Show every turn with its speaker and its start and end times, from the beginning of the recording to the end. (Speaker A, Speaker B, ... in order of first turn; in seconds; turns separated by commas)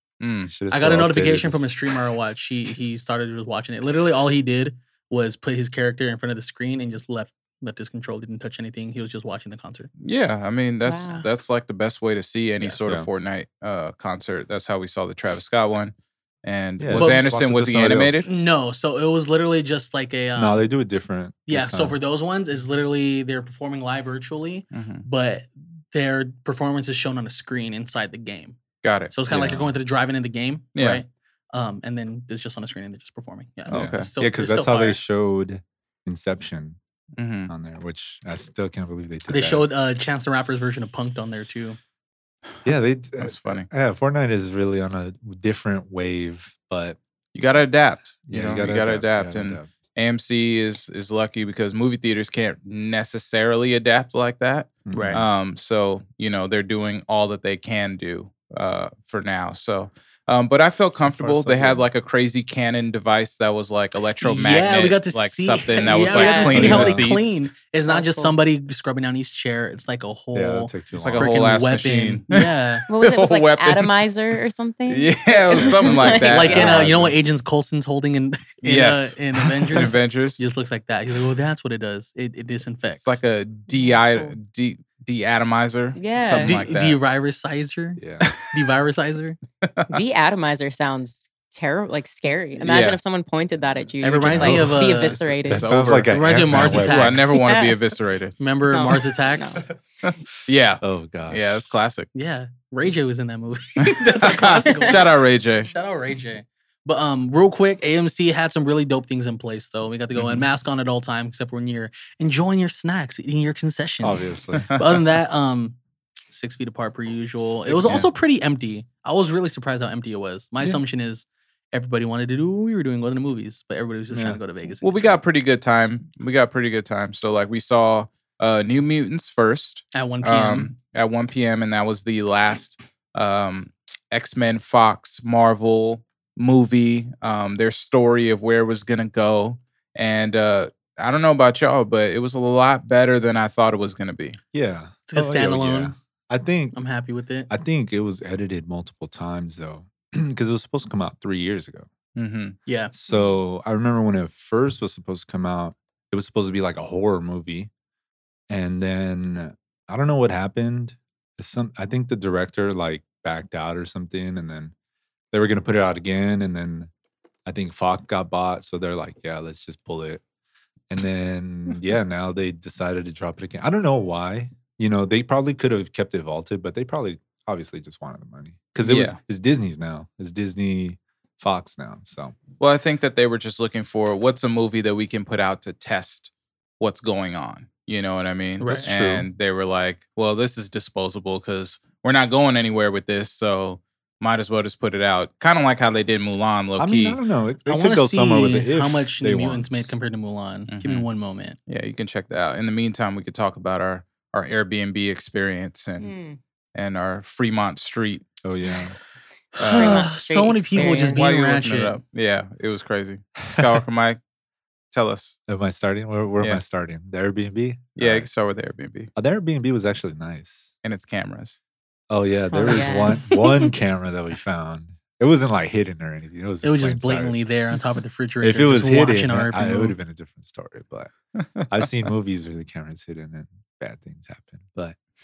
Speaker A: 0.2-0.5, Speaker B: 0.5-1.7, Speaker C: 0.7-9.9, Speaker A: 10.0-15.9, Speaker D: 10.8-11.3, Speaker A: 16.4-18.3, Speaker B: 16.8-18.2, Speaker C: 16.9-17.3, Speaker C: 18.2-20.7, Speaker B: 20.3-22.0, Speaker C: 21.5-28.6, Speaker A: 24.7-25.0, Speaker A: 28.8-29.1, Speaker C: 29.1-35.0, Speaker B: 29.3-29.7, Speaker A: 30.7-31.0, Speaker A: 33.7-34.1, Speaker B: 33.7-36.8, Speaker A: 37.2-37.5, Speaker B: 37.5-39.7, Speaker C: 39.3-41.8, Speaker B: 42.6-47.0, Speaker A: 43.2-43.7, Speaker A: 47.3-67.4, Speaker B: 48.3-49.7, Speaker B: 54.9-55.3, Speaker C: 54.9-55.2, Speaker B: 61.0-61.9, Speaker C: 64.2-72.9, Speaker D: 65.8-66.9, Speaker B: 66.4-67.1, Speaker D: 67.9-68.4, Speaker B: 70.3-71.4, Speaker A: 70.9-73.9, Speaker D: 72.9-76.8, Speaker A: 74.9-76.8, Speaker B: 75.5-77.2, Speaker C: 76.0-83.2, Speaker A: 78.6-80.4, Speaker A: 82.9-87.0, Speaker D: 83.7-84.3, Speaker D: 85.9-86.6, Speaker C: 86.2-89.4, Speaker B: 88.0-88.3, Speaker A: 88.2-88.6, Speaker A: 89.6-90.0, Speaker D: 89.9-95.8, Speaker A: 92.6-93.0, Speaker C: 94.0-95.2, Speaker B: 94.2-94.8, Speaker A: 94.8-98.3, Speaker B: 95.5-97.4, Speaker C: 96.1-97.4, Speaker D: 97.3-97.8, Speaker C: 98.4-99.7, Speaker D: 98.7-99.7, Speaker A: 100.0-102.1, Speaker B: 100.8-101.6, Speaker C: 102.1-115.8, Speaker A: 103.8-105.7, Speaker A: 110.2-110.4, Speaker B: 114.0-114.7, Speaker A: 114.5-114.8, Speaker C: 116.3-125.2, Speaker B: 117.4-118.1, Speaker B: 124.1-124.4, Speaker A: 124.8-144.4, Speaker C: 129.9-130.8, Speaker B: 144.5-146.8, Speaker C: 145.1-145.9, Speaker C: 146.7-147.5, Speaker B: 147.5-151.9, Speaker A: 152.2-152.6, Speaker C: 152.7-152.9, Speaker B: 152.9-157.7, Speaker D: 153.1-153.4, Speaker B: 158.5-164.7, Speaker B: 165.3-166.9, Speaker B: 167.4-170.2, Speaker B: 170.9-182.4, Speaker A: 178.8-179.2, Speaker A: 182.6-197.2, Speaker C: 188.6-188.8, Speaker B: 188.8-189.3, Speaker B: 196.8-199.9, Speaker C: 197.7-201.6, Speaker A: 200.7-201.1, Speaker A: 201.7-206.1, Speaker D: 206.0-206.4, Speaker A: 206.7-208.2, Speaker B: 208.4-208.9, Speaker C: 209.5-212.0, Speaker A: 209.6-210.2, Speaker D: 209.7-211.2, Speaker A: 210.7-214.2, Speaker B: 213.5-213.8, Speaker A: 214.9-215.4, Speaker B: 215.5-218.3, Speaker A: 217.9-219.1, Speaker B: 219.2-220.7, Speaker A: 220.8-221.6, Speaker B: 222.1-227.4, Speaker D: 222.5-223.7, Speaker C: 226.6-229.9, Speaker B: 228.4-231.1, Speaker B: 231.7-234.9